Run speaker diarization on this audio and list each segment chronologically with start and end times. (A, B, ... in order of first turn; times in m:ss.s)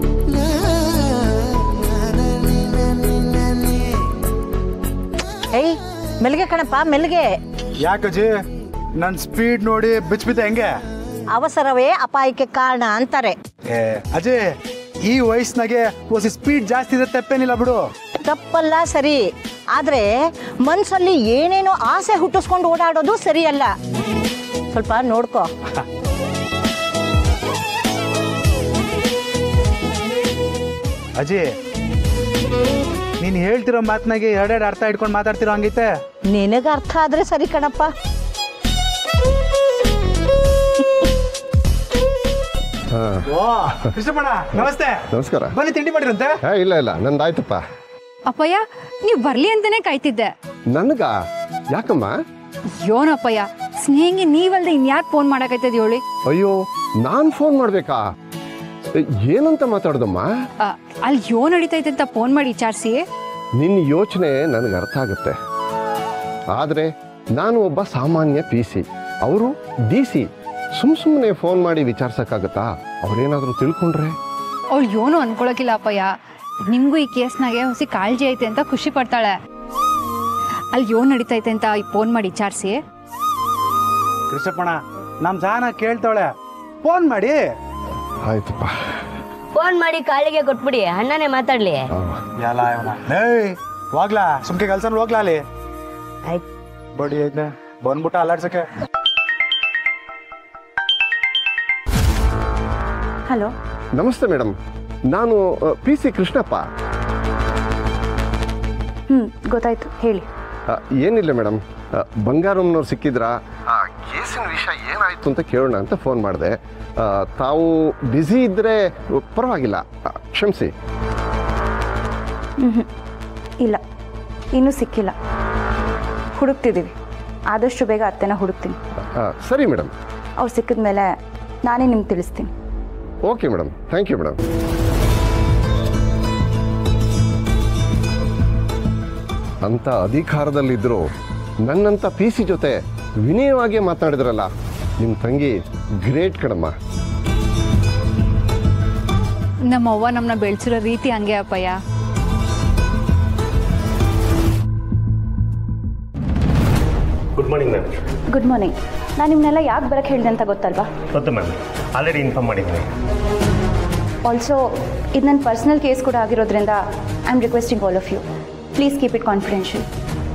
0:05.5-0:07.3 A
0:07.8-0:08.4 B
0:09.0-0:10.7 B
0:11.3-0:13.4 A
0:13.7-0:14.5 B
0:15.0-0:17.8 B
0:18.2-0:23.7 A
0:24.7-0:25.5 A
0:31.2-0:31.5 B
0:33.2-0:35.9 B
0:36.3-0:37.9 A
0:42.9-0:43.2 C
0:43.3-0:45.0 B
0:44.6-0:45.5 C
0:45.5-0:46.3 B
0:46.4-0:47.6 C
0:48.3-0:50.3 D
0:50.7-0:51.1 C
0:51.7-0:52.2 C
0:52.8-0:56.0 D
0:56.3-0:58.0 C
0:58.9-1:00.3 C
1:00.6-1:03.0 D
1:03.6-1:05.3 C
1:06.5-1:10.2 C
1:10.8-1:14.1 C
1:14.7-1:16.1 D
1:16.7-1:19.3 D
1:20.7-1:22.8 D
1:24.3-1:26.3 B
1:26.8-1:27.5 B
1:28.2-1:28.8 C
1:29.5-1:31.9 E
1:32.4-1:35.4 B
1:36.9-1:38.6 B
1:44.0-1:44.5 C
1:45.1-1:46.6 C
1:49.1-1:50.2 F
1:50.7-2:00.7 C
2:02.6-2:02.9 F
2:04.5-2:05.1 F
2:06.3-2:06.9 F
2:07.5-2:08.8 F
2:09.2-2:09.9 C
2:10.4-2:11.1 F
2:11.6-2:12.5 F
2:13.2-2:14.4 C
2:19.6-2:21.1 C
2:21.6-2:24.5 C
2:25.0-2:26.7 C
2:29.7-2:31.8 D
2:37.4-2:37.9 G
2:38.3-2:40.9 F
2:41.1-2:42.9 G
2:44.2-2:44.6 F
2:45.1-2:48.2 F
2:48.8-2:49.8 F